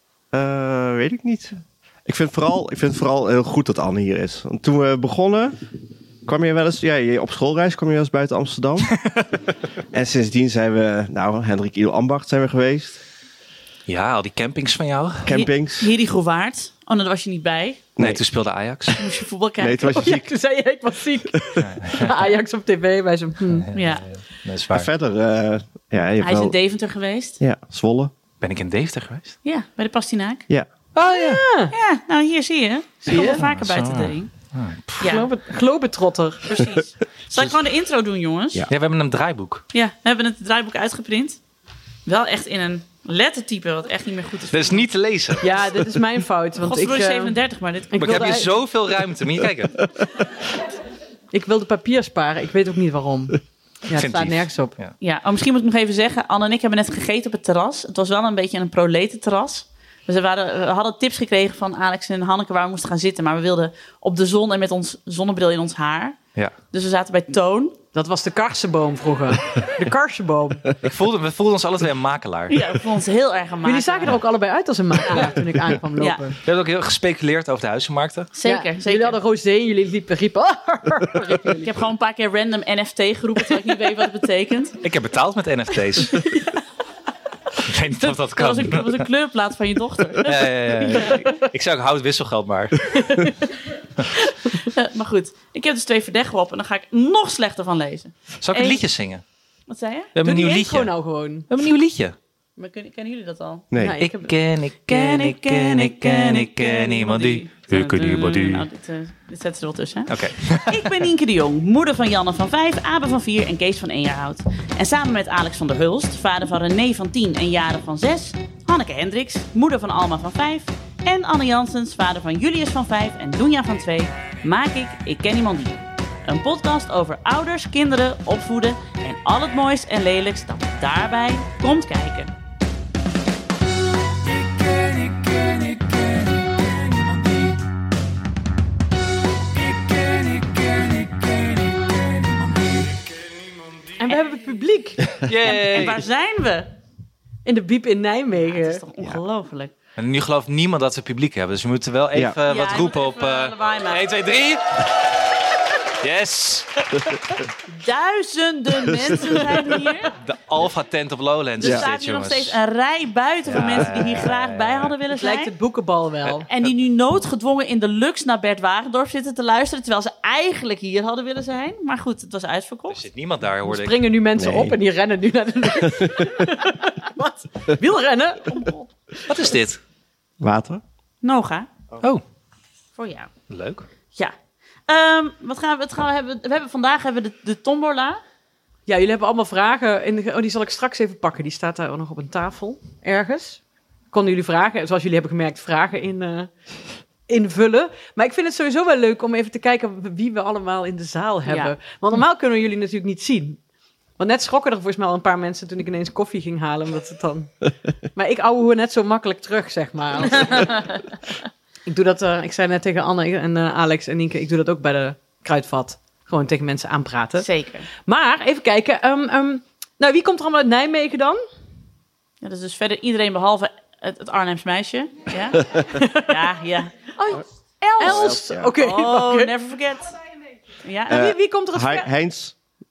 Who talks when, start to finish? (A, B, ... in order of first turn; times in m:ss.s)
0:00.3-0:05.6 A
0:06.2-0:09.0 A
0:09.9-0:13.0 A
0:13.9-0:15.3 B
0:15.2-0:15.9 A
0:15.3-0:17.8 C
0:18.0-0:19.0 B
0:19.0-0:20.0 C
0:19.6-0:20.3 A
0:19.9-0:23.7 D
0:21.6-0:22.1 B
0:23.5-0:24.9 B
0:23.7-0:24.0 C
0:24.7-0:26.6 A
0:26.2-0:27.4 C
0:27.4-0:28.1 A
0:28.4-0:29.3 B
0:29.4-0:30.4 C
0:30.9-0:31.4 B
0:31.2-0:31.7 D
0:31.7-0:34.3 C
0:33.1-0:33.4 D
0:33.1-0:35.0 B
0:35.0-0:35.3 C
0:35.0-0:36.6 D
0:36.4-0:38.6 C
0:38.7-0:39.6 B
0:39.7-0:41.4 C
0:42.0-0:44.8 C
0:44.5-0:45.6 B
0:45.4-0:47.4 D
0:46.6-0:48.4 C
0:47.9-0:48.5 D
0:48.0-0:49.9 B
0:51.3-0:54.7 D
0:53.9-0:54.9 B
0:55.0-1:06.2 C
1:06.7-1:07.8 C
1:07.9-1:10.7 D
1:10.8-1:12.6 B
1:12.5-1:14.1 C
1:13.6-1:16.4 D
1:15.0-1:15.3 C
1:16.0-1:16.2 C
1:16.4-1:18.3 B
1:18.3-1:19.2 C
1:18.4-1:21.7 D
1:21.6-1:24.8 C
1:24.8-1:26.3 B
1:27.6-1:29.0 B
1:28.0-1:30.4 C
1:30.2-1:33.1 B
1:30.9-1:31.2 D
1:33.0-1:33.3 D
1:34.3-1:38.8 C
1:38.4-1:39.2 B
1:39.7-1:40.1 C
1:40.2-1:40.9 B
1:40.2-1:41.5 D
1:41.5-1:42.2 B
1:42.6-1:43.7 C
1:43.8-1:44.3 D
1:44.0-1:48.6 B
1:44.9-2:12.3 C
1:50.1-1:51.0 B
2:24.0-2:25.2 D
2:25.2-2:26.0 B
2:25.4-2:26.7 C
2:27.4-2:28.8 D
2:28.4-2:29.7 C
2:30.0-2:35.2 B
2:32.5-2:34.0 C
2:35.8-2:36.8 B
2:37.7-2:40.2 C
2:40.2-2:42.5 B
2:41.6-2:45.5 C
2:43.4-2:45.0 B
2:45.1-2:46.5 D
2:46.5-2:53.0 C
2:52.9-2:54.0 B
2:53.6-2:58.6 D
2:54.4-2:54.8 A
2:55.8-2:56.3 A
2:58.4-2:58.9 C
2:59.3-2:59.8 B
3:00.4-3:00.8 A
3:01.2-3:01.7 C
3:03.0-3:03.3 C
3:03.5-3:03.8 B
3:04.9-3:08.2 C
3:08.9-3:13.6 D
3:14.1-3:16.5 D
3:17.3-3:23.6 D
3:21.4-3:21.7 C
3:24.2-3:27.6 D
3:28.1-3:31.0 D
3:30.3-3:31.0 C
3:31.8-3:37.5 D
3:37.4-3:37.9 C
3:38.0-3:41.4 D
3:42.4-3:47.1 C
3:45.9-3:46.4 D
3:47.2-3:47.4 D
3:47.8-3:50.2 C
3:48.0-3:49.5 D
3:48.0-3:48.7 A
3:50.8-3:51.2 C
3:51.1-3:52.1 D
3:51.1-3:52.5 A